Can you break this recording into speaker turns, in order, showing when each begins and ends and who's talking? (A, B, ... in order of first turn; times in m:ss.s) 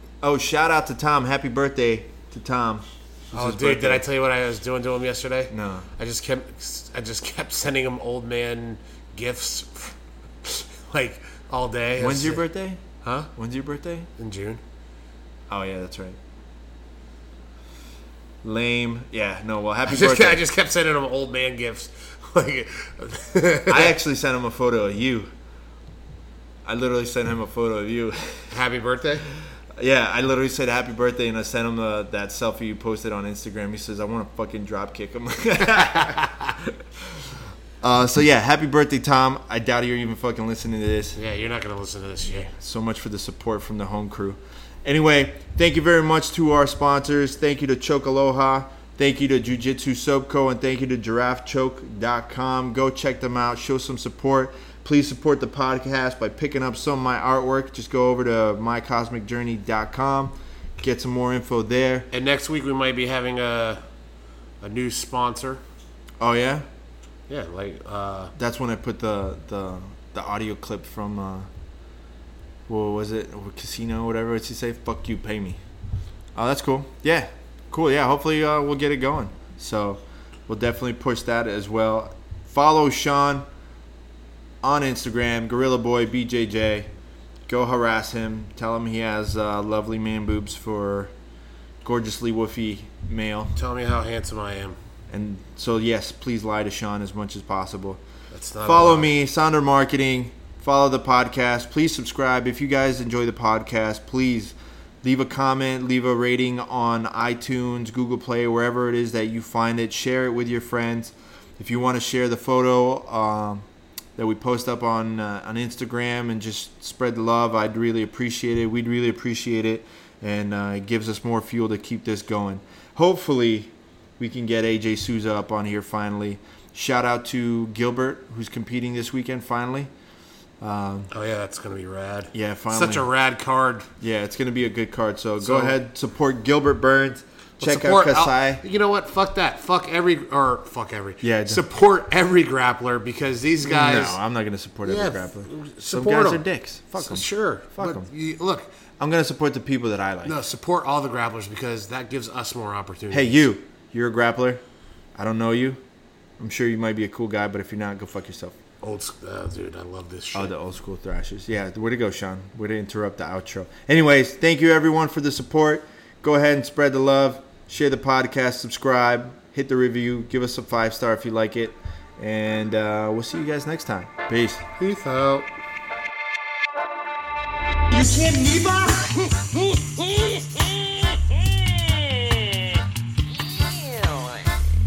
0:00.2-0:04.0 A
0:03.3-0:12.4 B
0:05.5-0:05.9 A
0:12.0-0:12.8 A
0:13.0-0:13.3 B
0:13.4-0:14.1 A
0:14.2-0:14.6 B
0:15.5-0:16.2 A
0:18.4-0:20.4 A
0:19.9-0:24.0 B
0:23.7-0:25.3 A
0:26.6-0:28.5 A
0:28.5-0:29.2 B
0:29.8-0:37.2 A
0:35.7-0:36.5 B
0:37.8-0:41.2 A
0:41.2-0:42.5 B
0:42.4-1:02.1 A
1:02.1-1:03.8 B
1:04.6-1:05.6 B
1:06.2-1:06.7 A
1:07.3-1:08.3 B
1:08.4-1:11.5 A
1:12.7-1:15.6 A
1:16.4-1:23.5 A
1:24.6-1:26.9 A
1:27.5-1:31.1 A
1:31.8-1:33.5 A
1:33.6-1:34.8 B
1:35.1-1:38.0 A
1:38.3-1:39.2 B
1:38.6-1:53.6 A
1:54.2-2:09.9 A
2:10.6-2:11.1 A
2:11.1-2:13.9 B
2:12.3-2:13.1 A
2:14.0-2:18.6 A
2:15.4-2:15.8 B
2:17.6-2:24.2 B
2:21.2-2:21.6 A
2:23.6-2:28.1 A
2:24.8-2:28.7 B
2:29.0-2:30.4 A
2:30.2-2:33.5 B
2:33.1-2:34.6 A
2:35.2-2:35.8 A
2:36.4-2:38.6 A
2:38.8-2:40.5 B
2:40.3-2:54.6 A
2:54.8-2:55.5 B
2:57.9-3:00.7 C
3:03.5-3:04.4 C